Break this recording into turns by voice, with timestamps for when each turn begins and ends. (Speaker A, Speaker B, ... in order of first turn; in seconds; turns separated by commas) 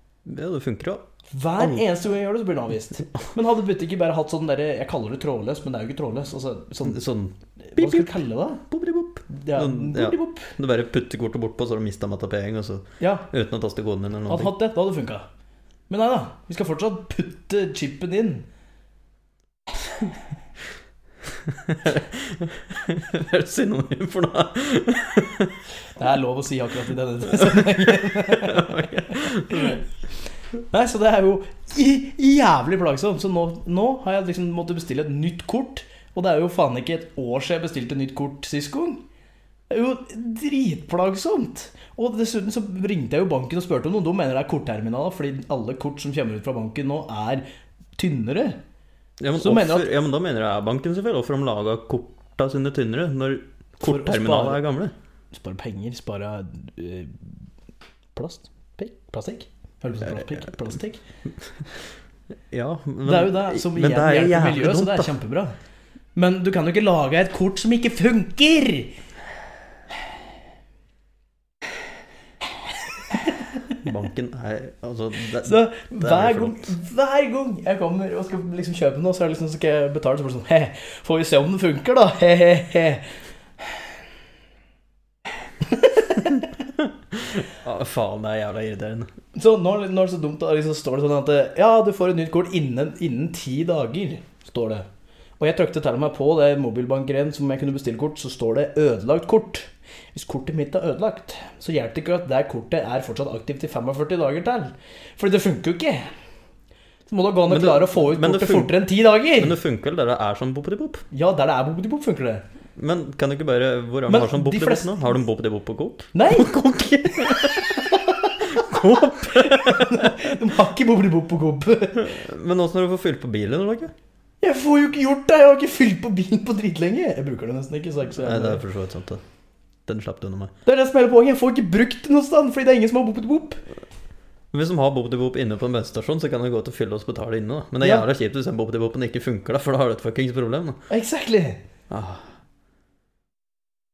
Speaker A: 0.2-1.1, Speaker B: 1.3-7.0, Speaker A: 1.6-1.8, Speaker A: 6.8-14.5, Speaker B: 7.6-8.6, Speaker B: 9.3-10.5, Speaker B: 13.0-13.3, Speaker B: 14.3-15.2, Speaker B: 15.9-18.5, Speaker A: 21.3-25.6, Speaker B: 25.9-29.8, Speaker A: 27.4-29.8, Speaker B: 30.7-39.0, Speaker B: 39.7-47.4, Speaker B: 48.0-48.6, Speaker A: 49.2-54.9, Speaker B: 49.4-49.9, Speaker B: 53.8-54.6, Speaker B: 55.3-57.4, Speaker B: 58.1-61.0, Speaker A: 62.5-65.1, Speaker B: 63.0-65.5, Speaker B: 66.2-69.0, Speaker B: 72.7-73.8, Speaker A: 73.8-76.7, Speaker B: 75.4-83.1, Speaker B: 83.6-83.9, Speaker B: 85.6-86.7, Speaker A: 86.8-89.1, Speaker B: 89.3-94.9, Speaker B: 95.4-106.1, Speaker B: 107.1-109.5, Speaker A: 107.5-108.8, Speaker A: 109.3-111.0, Speaker B: 111.1-112.4, Speaker A: 112.8-120.4, Speaker B: 114.1-115.1, Speaker B: 116.1-116.5, Speaker B: 117.3-118.7, Speaker B: 119.3-122.1, Speaker A: 121.9-123.9, Speaker B: 124.4-128.6, Speaker A: 128.1-129.2, Speaker A: 129.8-130.5, Speaker B: 130.6-133.6, Speaker A: 134.5-140.8, Speaker B: 137.8-138.1, Speaker B: 140.9-141.6, Speaker A: 141.9-142.3